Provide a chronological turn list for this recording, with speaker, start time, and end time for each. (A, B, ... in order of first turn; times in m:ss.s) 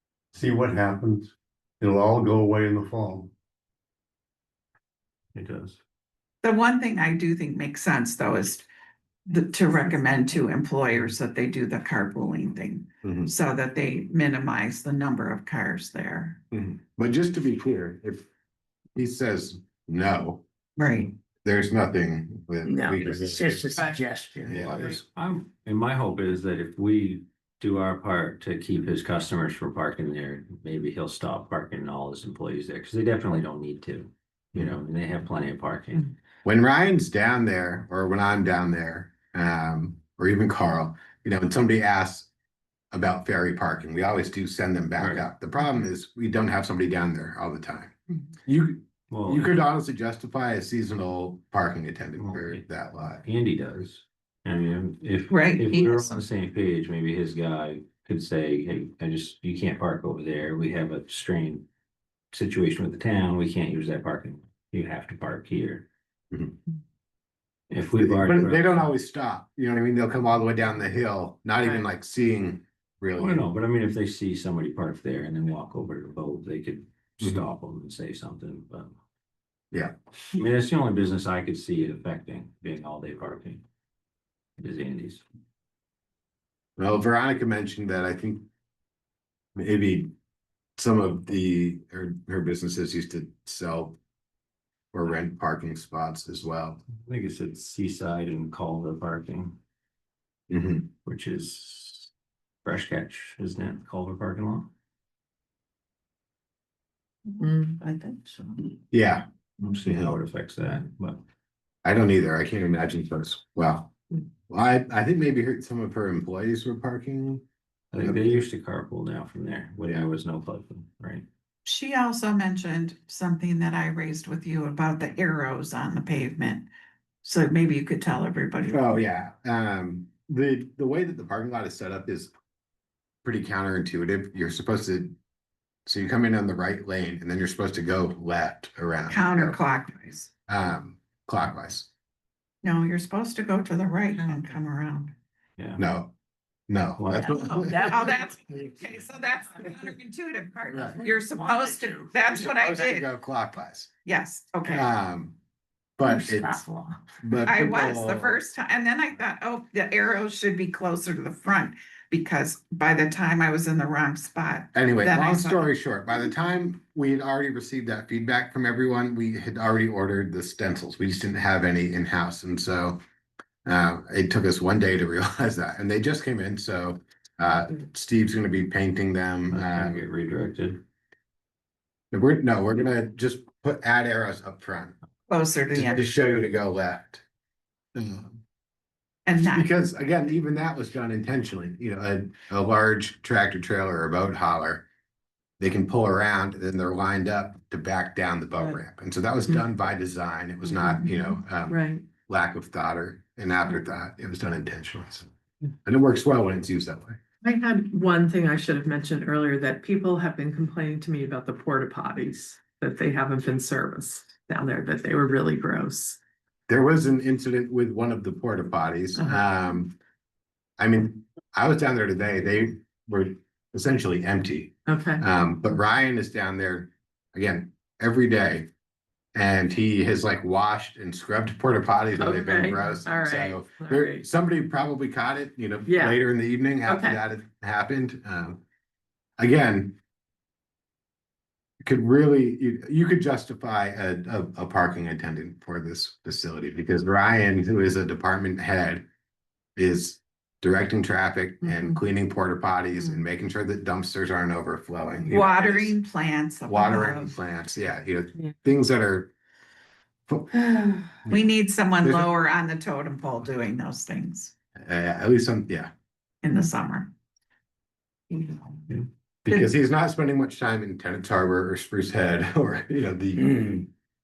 0:00.3-0:03.3 A
0:05.3-0:05.8 B
0:06.4-0:08.7 C
0:09.3-0:16.4 C
0:13.0-0:13.3 D
0:16.5-0:18.3 D
0:19.0-0:20.4 D
0:20.8-0:21.1 C
0:21.4-0:23.9 D
0:22.6-0:25.0 E
0:24.4-0:25.0 D
0:25.1-0:36.1 B
0:36.4-0:42.3 D
0:42.9-0:53.2 D
0:45.0-0:45.3 B
0:49.1-0:49.6 B
0:52.2-0:52.6 B
0:53.2-1:01.7 B
0:55.3-0:56.1 C
1:02.3-1:05.9 B
1:06.3-1:06.6 D
1:07.7-1:08.9 B
1:08.0-1:13.4 D
1:13.2-1:19.0 B
1:20.3-1:23.6 B
1:24.6-1:25.2 B
1:26.8-1:28.4 D
1:29.6-1:30.1 D
1:30.8-1:34.0 D
1:34.9-1:36.8 D
1:36.9-1:39.6 B
1:40.5-1:40.9 D
1:41.0-1:42.1 B
1:42.6-1:44.7 B
1:47.4-1:47.8 F
1:48.9-1:49.2 D
1:49.6-1:51.2 B
1:49.8-1:50.1 D
1:51.8-1:53.9 D
1:54.5-1:57.4 D
1:57.9-2:01.2 B
1:58.0-1:58.4 D
2:01.6-2:06.7 C
2:07.2-2:08.9 C
2:08.7-2:12.3 D
2:13.2-2:15.1 D
2:15.8-2:19.6 D
2:19.1-2:20.3 C
2:20.5-2:21.9 D
2:22.6-2:25.1 C
2:25.8-2:26.1 D
2:26.7-2:28.0 D
2:27.0-2:27.5 B
2:27.3-2:33.1 C
2:30.7-2:31.1 D
2:32.3-2:33.9 D
2:34.0-2:34.9 C
2:34.6-2:35.4 D
2:36.0-2:36.6 D
2:37.2-2:38.4 D
2:37.4-2:45.7 C
2:44.7-2:53.0 D
2:53.7-3:00.0 D
2:59.5-3:00.8 B
3:02.1-3:05.0 D
3:05.3-3:06.0 C
3:05.7-3:07.2 D
3:07.9-3:08.4 D
3:09.2-3:09.7 C
3:09.5-3:14.8 D
3:15.6-3:25.3 D
3:20.7-3:22.1 F
3:25.8-3:27.2 D
3:27.4-3:36.2 F
3:36.7-3:39.9 D
3:39.1-3:39.4 F
3:40.8-3:48.7 D
3:44.9-3:45.2 F
3:49.3-3:58.6 D
3:52.2-3:54.2 F
3:55.8-3:56.2 F
3:56.8-3:57.2 F
3:59.4-4:00.0 D
4:01.8-4:09.1 D
4:09.8-4:16.0 D
4:11.6-4:12.0 F
4:15.3-4:17.3 C
4:16.7-4:19.3 D
4:20.3-4:21.4 D
4:21.3-4:24.5 C
4:22.0-4:22.3 D
4:24.8-4:25.9 D
4:26.4-4:27.1 C
4:29.4-4:33.9 D